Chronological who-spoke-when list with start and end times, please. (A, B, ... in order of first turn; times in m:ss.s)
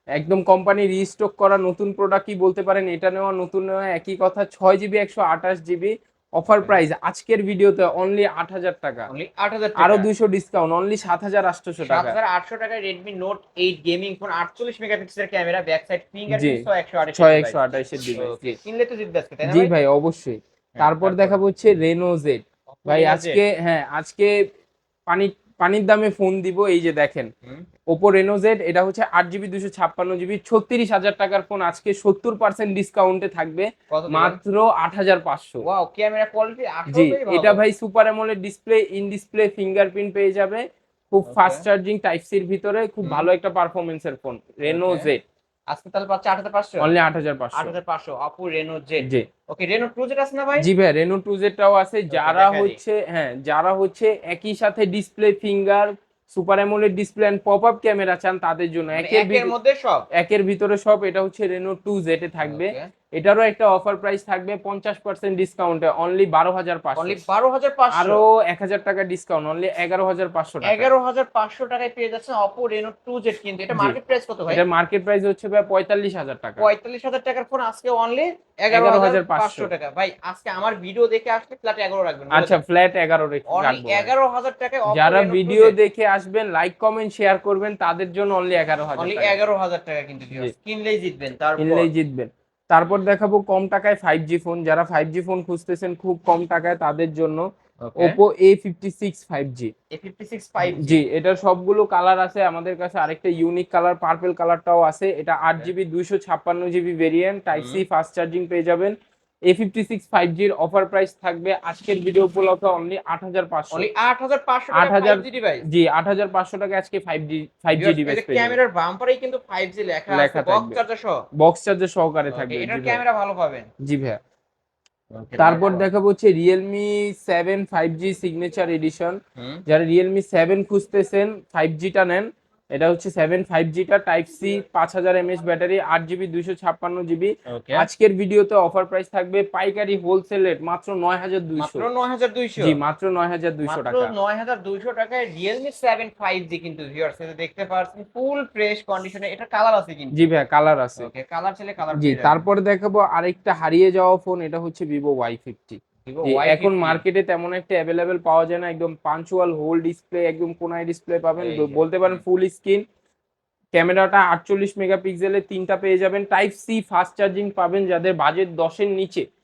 0:00.1-0:09.1 A
0:06.5-0:06.8 B
0:09.1-0:10.1 B
0:09.8-0:12.2 A
0:11.8-0:19.7 B
0:16.3-0:18.6 A
0:19.4-0:24.3 A
0:20.8-0:21.4 B
0:22.7-0:23.4 B
0:25.1-0:27.3 A
0:27.9-0:35.6 A
0:33.9-0:34.4 B
0:35.6-0:37.6 B
0:36.9-0:45.2 A
0:41.2-0:41.6 B
0:44.6-0:45.1 B
0:45.7-0:46.9 B
0:46.8-0:47.7 A
0:47.5-0:50.7 B
0:50.6-0:59.5 A
0:52.1-0:52.8 B
0:59.0-1:00.1 B
1:00.1-1:07.2 A
1:02.4-1:02.9 B
1:07.0-1:08.2 B
1:07.9-1:10.9 A
1:10.6-1:14.6 B
1:14.5-1:16.6 A
1:16.6-1:22.6 B
1:18.7-1:19.7 A
1:22.3-1:24.1 A
1:23.5-1:25.8 B
1:24.9-1:29.4 A
1:29.0-1:31.9 B
1:31.6-1:37.4 A
1:37.8-1:38.2 B
1:38.0-1:39.7 A
1:39.9-1:41.0 B
1:40.7-1:48.9 A
1:47.5-1:47.8 B
1:49.5-1:53.9 A
1:53.7-1:55.6 B
1:54.7-1:58.6 A
1:57.8-2:01.2 B
2:00.1-2:00.8 A
2:01.4-2:03.0 A
2:02.3-2:03.7 B
2:03.8-2:04.2 A
2:05.1-2:05.8 B
2:05.4-2:21.8 A
2:09.4-2:09.6 B
2:17.5-2:17.9 B
2:21.6-2:22.8 B
2:22.6-2:24.1 A
2:23.7-2:30.2 B
2:30.1-2:31.1 A
2:31.0-2:32.4 B
2:32.0-2:42.8 A
2:36.0-2:37.0 B
2:41.4-2:42.2 B
2:43.7-2:49.2 A